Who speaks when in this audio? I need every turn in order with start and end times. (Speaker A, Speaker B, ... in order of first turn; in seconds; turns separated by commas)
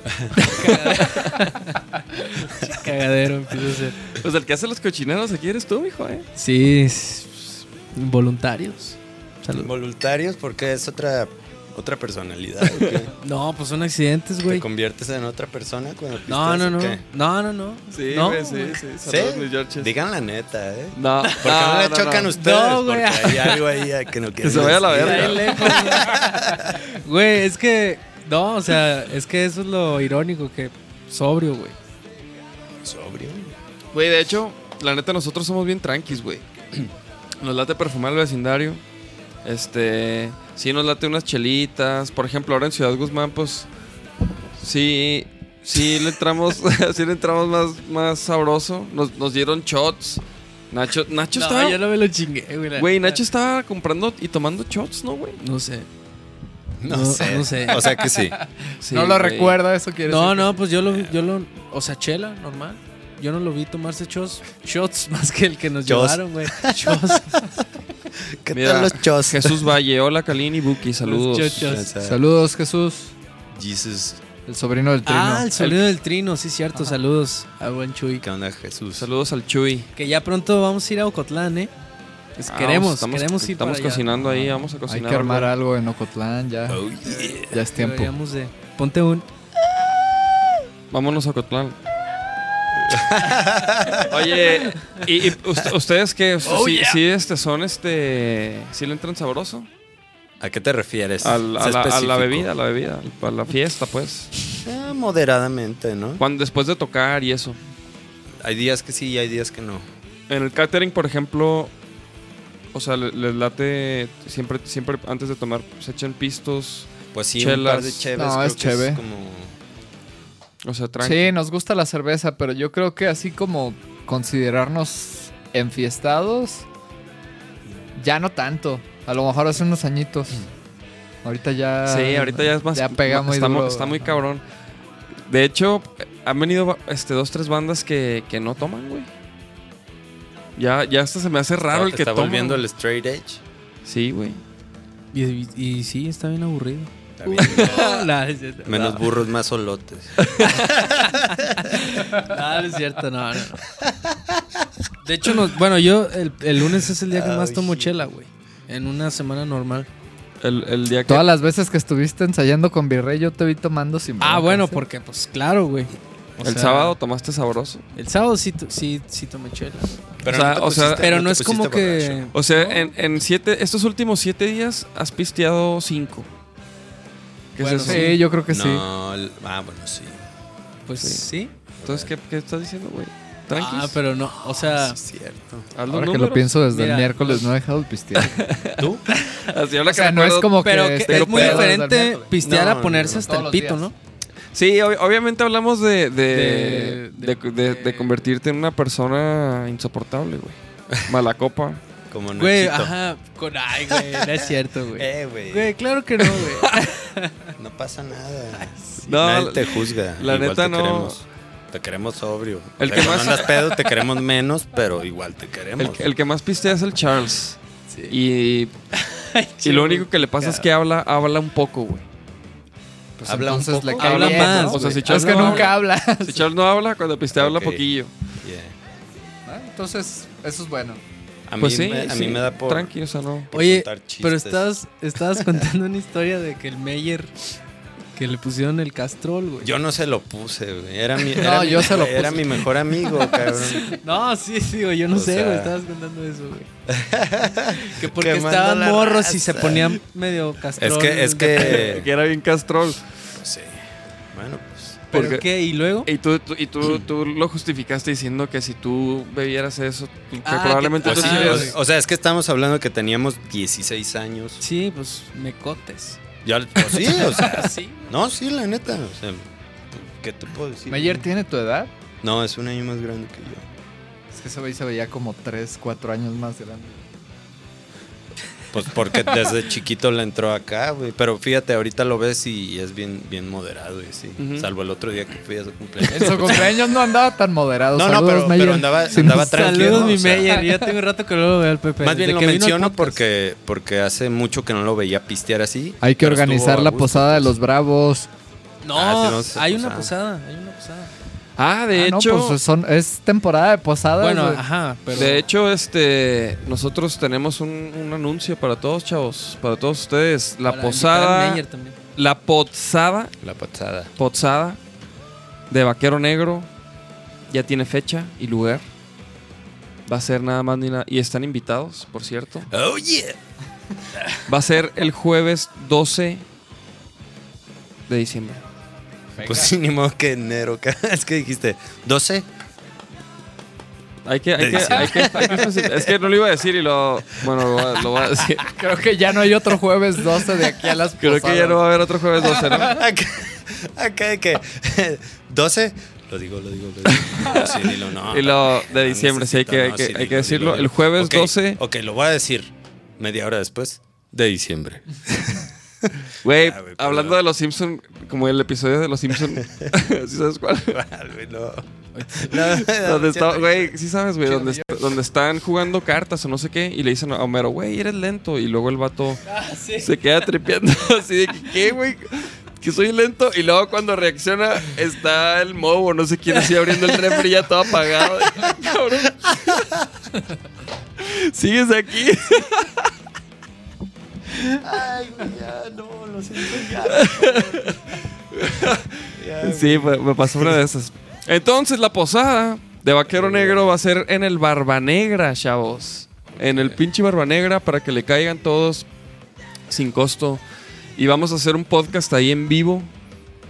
Speaker A: 0.4-4.0, Speaker B: 0.4-1.3, Speaker B: 4.1-6.3, Speaker A: 6.4-9.7, Speaker C: 9.5-13.1, Speaker A: 13.2-14.7, Speaker C: 14.4-17.0, Speaker A: 16.3-18.8, Speaker B: 17.9-19.9, Speaker C: 19.0-26.8, Speaker B: 21.0-22.3, Speaker A: 22.3-23.7, Speaker B: 24.4-25.9, Speaker A: 24.6-31.8, Speaker C: 32.8-33.5, Speaker B: 33.9-36.5, Speaker B: 37.4-38.8, Speaker B: 39.4-43.7, Speaker B: 44.6-51.8, Speaker A: 51.4-53.2, Speaker B: 52.8-55.4, Speaker A: 55.4-55.9, Speaker C: 56.8-58.4, Speaker A: 56.9-58.0, Speaker D: 58.7-60.6, Speaker B: 58.8-59.6, Speaker A: 60.1-67.5, Speaker C: 65.8-67.6, Speaker C: 68.2-69.7, Speaker B: 68.5-71.8, Speaker A: 71.0-71.9, Speaker C: 71.6-72.2, Speaker D: 72.0-73.1, Speaker C: 73.5-74.2, Speaker D: 74.5-75.5, Speaker A: 75.1-78.2, Speaker B: 75.6-75.8, Speaker C: 78.2-79.1, Speaker B: 79.0-79.9, Speaker A: 80.0-81.7, Speaker A: 82.4-84.2, Speaker B: 82.5-85.5, Speaker D: 84.9-86.8, Speaker C: 86.7-87.5, Speaker A: 87.0-89.3, Speaker D: 87.5-88.1, Speaker B: 90.9-91.8, Speaker C: 92.8-94.1, Speaker B: 94.0-99.7, Speaker A: 96.5-96.9, Speaker C: 100.4-102.5, Speaker B: 101.2-104.3, Speaker C: 104.6-106.2, Speaker B: 106.2-107.6, Speaker C: 108.4-109.9, Speaker B: 110.3-111.7, Speaker B: 112.7-118.1, Speaker C: 117.1-119.6, Speaker D: 118.2-119.0, Speaker B: 120.6-121.3, Speaker D: 121.0-126.7, Speaker D: 128.0-130.5, Speaker D: 131.2-134.2, Speaker B: 131.9-134.4, Speaker B: 135.3-139.1, Speaker B: 140.6-142.6, Speaker C: 141.7-143.4, Speaker B: 143.8-144.4, Speaker A: 145.1-149.0, Speaker C: 147.2-147.9, Speaker B: 147.5-148.1, Speaker C: 148.7-151.7, Speaker B: 150.2-150.6, Speaker A: 150.7-153.6, Speaker C: 153.8-154.7, Speaker A: 155.0-159.9, Speaker C: 157.1-158.1, Speaker B: 160.4-161.3, Speaker D: 161.1-164.8, Speaker A: 164.2-166.9, Speaker B: 166.4-167.8, Speaker A: 167.9-170.0, Speaker C: 170.2-172.3, Speaker B: 170.3-171.1, Speaker A: 171.0-172.9, Speaker B: 172.3-176.3, Speaker B: 177.6-178.2, Speaker A: 177.6-178.2, Speaker D: 177.9-178.8, Speaker C: 178.5-180.2, Speaker A: 180.9-181.5, Speaker B: 181.0-181.3, Speaker C: 181.8-182.1, Speaker B: 181.8-184.0, Speaker A: 183.5-185.0, Speaker C: 184.5-185.7, Speaker B: 185.8-186.5, Speaker D: 185.9-188.3, Speaker A: 186.7-187.5, Speaker B: 188.2-191.8, Speaker C: 188.8-189.1, Speaker A: 189.1-189.5, Speaker D: 189.9-192.3, Speaker A: 190.6-193.9, Speaker C: 192.4-193.3, Speaker D: 193.2-193.9, Speaker B: 194.5-201.8, Speaker A: 196.3-198.2, Speaker C: 202.1-202.9, Speaker A: 202.4-207.5, Speaker C: 203.9-205.8, Speaker B: 206.4-206.7, Speaker C: 207.6-216.1, Speaker B: 209.1-211.2, Speaker B: 212.8-213.8, Speaker B: 215.8-217.6, Speaker A: 217.9-218.2, Speaker B: 218.1-218.7, Speaker A: 218.9-220.7, Speaker B: 219.6-222.1, Speaker C: 223.2-224.5, Speaker D: 223.2-226.4, Speaker A: 224.0-225.8, Speaker B: 224.2-228.1, Speaker C: 227.3-227.8, Speaker C: 228.4-228.8, Speaker D: 229.5-231.0, Speaker C: 231.5-232.9, Speaker B: 231.6-233.5, Speaker C: 233.5-234.7, Speaker A: 233.5-237.3, Speaker C: 235.4-235.6, Speaker A: 238.2-239.7, Speaker C: 239.6-244.0, Speaker D: 241.4-242.6, Speaker A: 243.0-246.7, Speaker C: 245.1-245.8, Speaker C: 246.9-250.0, Speaker A: 247.8-252.0, Speaker C: 250.8-252.1, Speaker B: 251.5-253.0, Speaker C: 253.4-255.0, Speaker B: 255.1-255.5, Speaker A: 255.1-256.1, Speaker B: 256.0-261.8, Speaker C: 256.8-257.1, Speaker A: 260.4-261.8, Speaker C: 261.0-264.6, Speaker A: 264.6-266.2, Speaker C: 266.4-271.2, Speaker A: 266.8-268.1, Speaker D: 270.9-271.9, Speaker C: 272.2-273.7, Speaker D: 274.3-277.1, Speaker C: 278.7-286.9, Speaker B: 284.4-284.7, Speaker D: 286.1-290.1, Speaker C: 287.9-290.8, Speaker A: 289.2-293.2, Speaker C: 292.0-297.6, Speaker D: 296.0-298.3, Speaker A: 298.8-301.1, Speaker C: 298.9-300.1, Speaker B: 301.6-302.6, Speaker D: 301.9-304.6, Speaker A: 304.2-305.4, Speaker B: 305.1-311.6, Speaker A: 310.7-312.0, Speaker B: 312.2-313.3, Speaker C: 313.4-314.1, Speaker B: 314.2-314.8, Speaker B: 315.7-316.7, Speaker B: 317.5-318.8, Speaker B: 320.1-322.7, Speaker C: 322.7-323.4, Speaker B: 324.4-326.4, Speaker B: 328.1-328.6, Speaker D: 329.4-329.7, Speaker C: 329.4-332.5, Speaker B: 334.2-338.8, Speaker C: 334.6-336.1, Speaker D: 338.8-341.8, Speaker B: 341.2-343.0, Speaker C: 342.5-357.4, Speaker B: 347.1-351.8, Speaker B: 356.4-361.0, Speaker C: 359.6-359.9, Speaker C: 360.9-363.9, Speaker A: 362.1-362.6, Speaker B: 362.6-369.4, Speaker D: 364.5-365.0, Speaker A: 369.5-370.2, Speaker B: 370.0-380.0, Speaker B: 381.2-383.1, Speaker C: 384.8-388.0, Speaker B: 386.9-399.1, Speaker C: 389.3-390.8, Speaker C: 393.3-393.9, Speaker C: 396.6-397.0, Speaker B: 399.9-400.6, Speaker B: 401.2-403.1